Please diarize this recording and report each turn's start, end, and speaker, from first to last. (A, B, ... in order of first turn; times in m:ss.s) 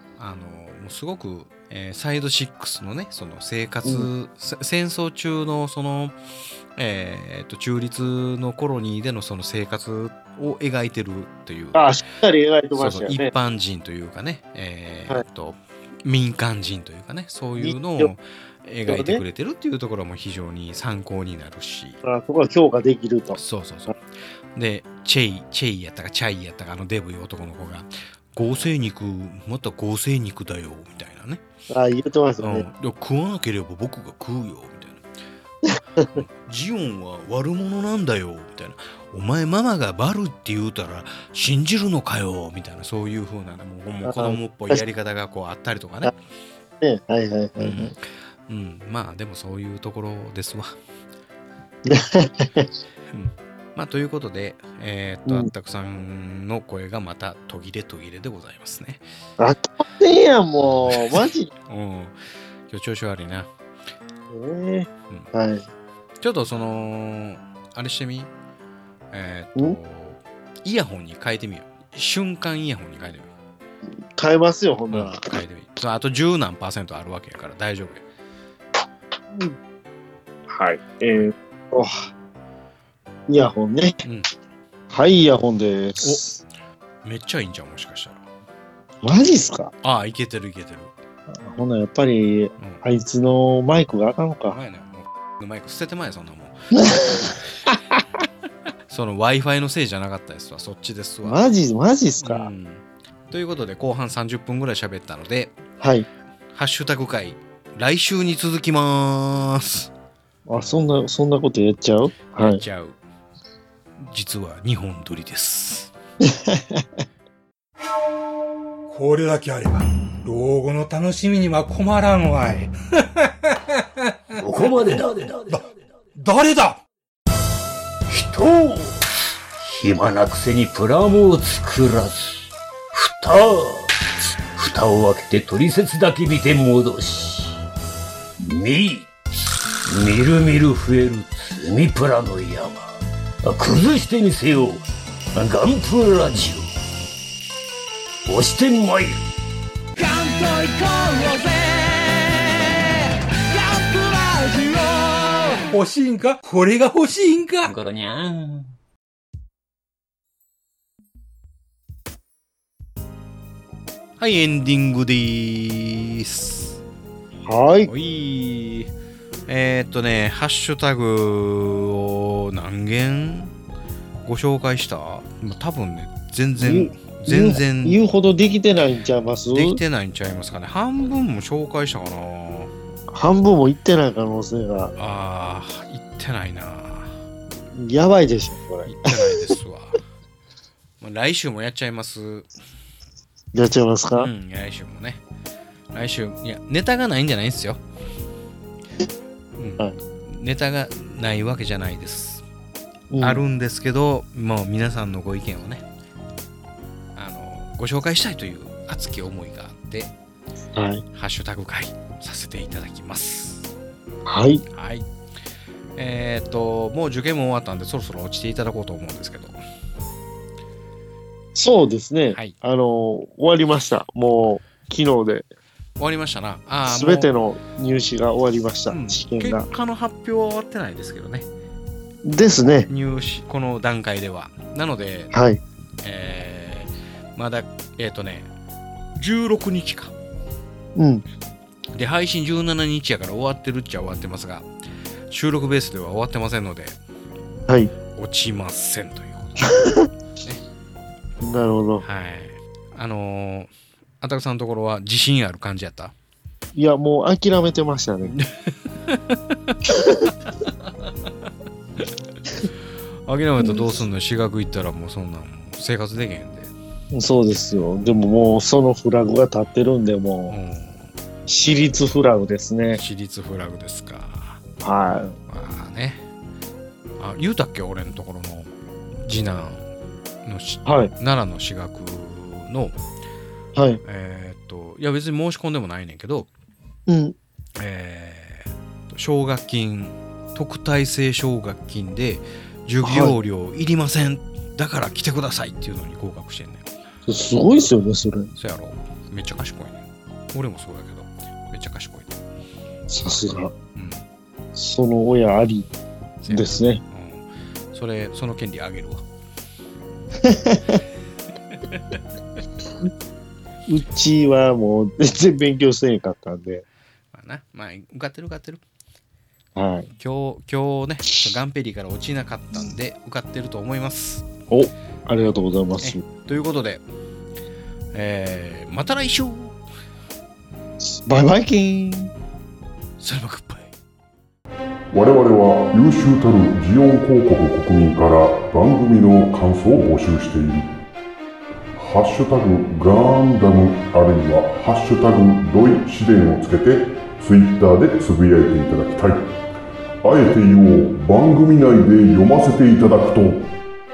0:00.2-0:06.2 A
0:06.8-0:11.9 A
0:11.7-0:13.3 B
0:12.8-0:22.0 A
0:17.6-0:18.1 B
0:18.9-0:19.2 B
0:22.0-0:23.4 B
0:23.3-0:24.0 A
0:24.5-0:31.4 A
0:31.7-0:32.6 B
0:32.4-0:35.0 A
0:35.6-0:36.1 B
0:36.0-0:46.1 A
0:44.0-0:44.8 B
0:46.8-0:47.9 B
0:47.6-0:47.9 A
0:48.5-0:50.7 A
0:51.8-0:52.7 B
0:53.1-0:59.0 A
0:59.4-1:01.5 B
1:00.6-1:03.5 A
1:04.3-1:05.6 B
1:06.2-1:08.3 A
1:09.1-1:13.3 A
1:14.2-1:15.3 B
1:14.9-1:18.0 A
1:20.5-1:22.1 B
1:23.3-1:24.0 B
1:24.9-1:26.4 B
1:27.0-1:28.2 A
1:29.0-1:29.7 B
1:29.8-1:30.9 A
1:31.3-1:34.6 B
1:34.5-1:37.4 A
1:36.7-1:38.0 B
1:38.9-1:41.4 A
1:41.2-1:42.5 B
1:42.2-1:45.5 A
1:45.8-1:46.0 B
1:46.5-1:49.9 A
1:50.5-1:52.6 B
1:52.4-1:53.0 A
1:54.0-1:55.9 A
1:56.3-1:56.8 B
1:58.9-2:03.3 C
2:04.4-2:05.6 D
2:06.2-2:06.8 C
2:08.1-2:09.0 D
2:09.6-2:12.3 D
2:12.9-2:14.0 D
2:14.6-2:17.6 D
2:18.4-2:19.1 D
2:19.8-2:26.7 D
2:28.2-2:29.2 D
2:30.0-2:37.7 C
2:37.6-2:38.7 D
2:44.2-2:46.8 A
2:47.5-2:47.9 B
2:47.9-2:48.9 A
2:49.5-2:53.5 A
2:54.2-2:58.0 A
2:56.6-2:59.8 B
2:59.5-3:02.7 A
3:03.1-3:04.9 B
3:05.0-3:07.2 A
3:07.7-3:09.5 B
3:08.8-3:10.0 A
3:11.0-3:12.5 A
3:13.5-3:14.3 B
3:14.2-3:15.2 A
3:15.9-3:17.8 A
3:19.6-3:22.4 A
3:23.1-3:23.4 B
3:23.2-3:25.8 A
3:27.2-3:30.1 A
3:30.7-3:31.0 B
3:31.1-3:33.7 A
3:34.2-3:34.6 B
3:34.7-3:35.1 A
3:36.0-3:39.6 A
3:41.5-3:45.4 B
3:46.0-3:47.3 A
3:46.9-3:49.6 B
3:48.9-3:51.5 A
3:52.2-3:52.9 B
3:52.9-3:55.3 A
3:55.3-3:55.6 B
3:56.0-3:58.5 A
3:59.2-4:00.1 A
4:01.0-4:01.2 B
4:01.9-4:04.7 A
4:05.3-4:07.0 A
4:08.1-4:09.8 A
4:09.6-4:10.1 B
4:11.4-4:12.0 B
4:12.0-4:13.7 A
4:14.2-4:16.1 A
4:16.7-4:18.4 B
4:18.3-4:19.8 A
4:19.9-4:20.3 B
4:20.6-4:21.1 A
4:23.3-4:26.7 A
4:23.6-4:24.0 B
4:27.1-4:30.6 B
4:30.5-4:31.1 A
4:31.5-4:33.0 B
4:32.9-4:34.6 A
4:34.8-4:35.4 B
4:35.5-4:36.2 A
4:37.2-4:38.7 A
4:39.2-4:39.8 A
4:40.4-4:43.0 A
4:40.8-4:41.1 B
4:43.7-4:44.0 B
4:44.0-4:46.5 A
4:47.1-4:47.3 B
4:47.8-4:56.8 A
4:53.0-4:53.3 B
4:57.3-4:58.5 B
4:58.6-5:02.4 A
5:03.1-5:03.7 B
5:03.9-5:04.2 A
5:04.8-5:05.9 B
5:06.4-5:09.2 A
5:06.5-5:07.0 B
5:10.4-5:11.0 B
5:11.7-5:12.2 A
5:13.9-5:16.8 B
5:17.3-5:18.8 A
5:19.8-5:20.1 B
5:20.2-5:24.4 A
5:24.7-5:26.2 B
5:26.0-5:27.0 A
5:28.1-5:29.8 A
5:31.0-5:32.3 B
5:33.2-5:33.9 A
5:35.1-5:40.9 E
5:42.0-5:49.5 E
5:50.2-5:53.7 E